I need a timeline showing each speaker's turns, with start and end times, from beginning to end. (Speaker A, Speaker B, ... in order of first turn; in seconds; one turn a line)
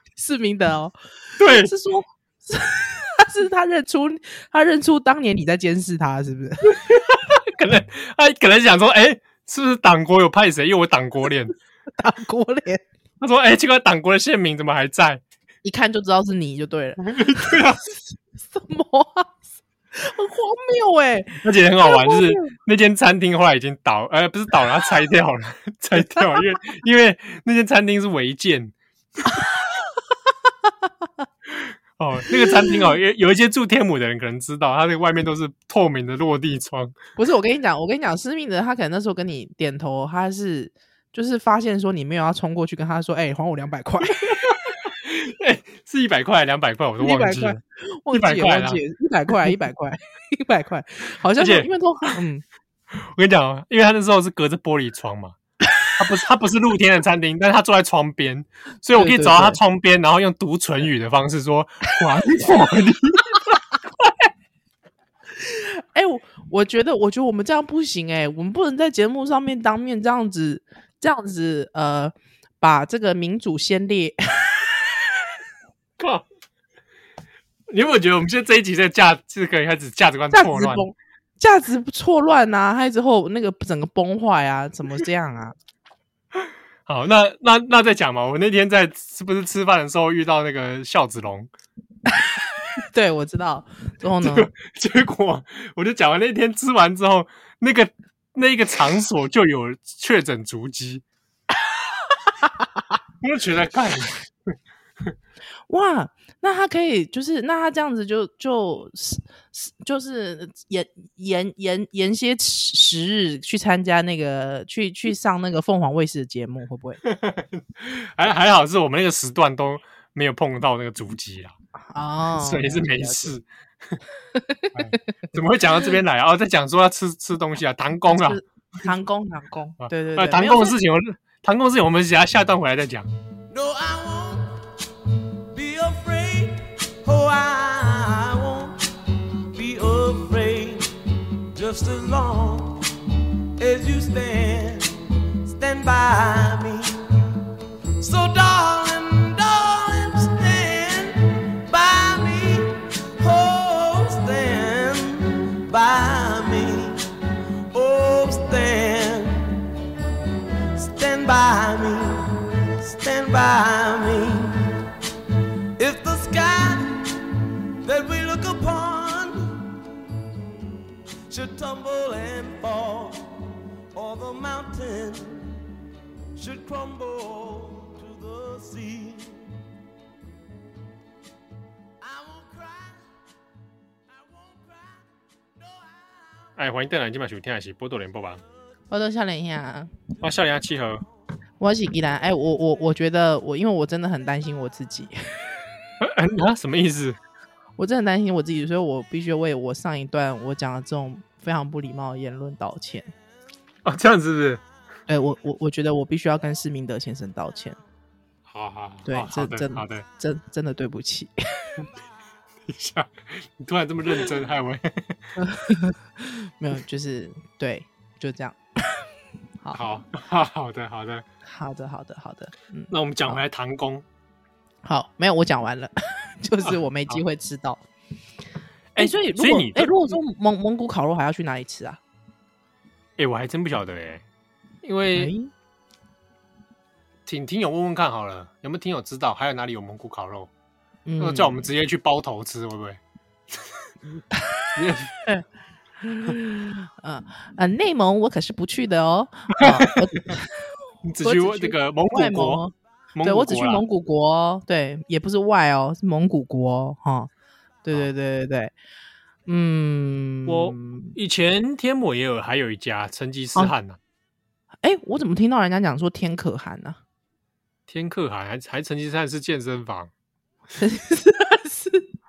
Speaker A: 0.1-6.8
Speaker B: 1.4-1.7
Speaker B: 6.6-11.5
Speaker A: 12.0-12.8
Speaker B: 13.2-15.2
Speaker A: 15.6-17.7
Speaker B: 17.0-17.8
Speaker A: 18.5-19.3
Speaker A: 19.9-22.5
Speaker B: 21.4-28.7
Speaker A: 26.0-26.4
Speaker A: 29.3-29.8
Speaker B: 31.5-37.0
Speaker A: 32.3-32.9
Speaker A: 37.2-44.5
Speaker B: 44.2-47.6
Speaker A: 47.0-52.4
Speaker B: 48.1-48.8
Speaker B: 51.4-51.7
Speaker B: 52.9-55.4
Speaker B: 56.0-64.1
Speaker A: 58.9-59.6
Speaker A: 65.4-74.7
Speaker B: 76.0-76.2
Speaker B: 77.7-80.8
Speaker A: 80.3-85.5
Speaker B: 86.3-91.5
Speaker A: 92.2-94.5
Speaker B: 94.2-101.0
Speaker B: 103.2-104.2
Speaker A: 105.7-117.0
Speaker B: 117.0-121.5
Speaker A: 121.9-123.3
Speaker B: 122.4-124.0
Speaker A: 124.3-124.8
Speaker B: 124.7-128.4
Speaker A: 128.1-130.8
Speaker B: 129.8-133.1
Speaker C: 133.5-134.6
Speaker C: 135.5-138.8
Speaker C: 139.5-140.9
Speaker C: 141.5-142.8
Speaker C: 143.6-146.9
Speaker C: 148.0-157.0
Speaker C: 157.7-159.6
Speaker C: 160.7-164.8
Speaker C: 165.8-167.2
Speaker C: 167.8-169.8
Speaker C: 171.3-173.2
Speaker C: 173.9-175.4
Speaker C: 176.3-179.4
Speaker C: 182.0-183.0
Speaker C: 184.1-186.5
Speaker B: 186.6-188.4
Speaker A: 188.9-189.9
Speaker B: 190.2-191.0
Speaker A: 191.6-195.6
Speaker B: 196.0-197.2
Speaker A: 197.8-203.1
Speaker B: 203.8-204.6
Speaker A: 205.1-207.8
Speaker B: 208.5-210.1
Speaker A: 209.1-211.7
Speaker B: 212.7-215.2
Speaker A: 215.4-219.1
Speaker B: 219.7-221.2
Speaker A: 221.4-223.4
Speaker B: 222.9-224.0
Speaker A: 224.8-227.8
Speaker B: 226.7-227.2
Speaker B: 228.9-230.2
Speaker A: 229.0-232.0
Speaker B: 233.2-234.2
Speaker B: 234.8-235.3
Speaker A: 235.1-235.5
Speaker B: 237.2-240.5
Speaker A: 241.1-241.6
Speaker B: 241.2-243.0
Speaker B: 244.7-245.1
Speaker A: 246.0-250.7
Speaker B: 249.6-250.3
Speaker B: 251.0-252.6
Speaker A: 251.2-252.7
Speaker B: 253.1-253.8
Speaker A: 253.2-257.3
Speaker A: 257.8-258.7
Speaker A: 259.4-261.1
Speaker B: 260.4-264.0
Speaker A: 264.8-267.0
Speaker B: 267.9-270.1
Speaker A: 270.7-272.1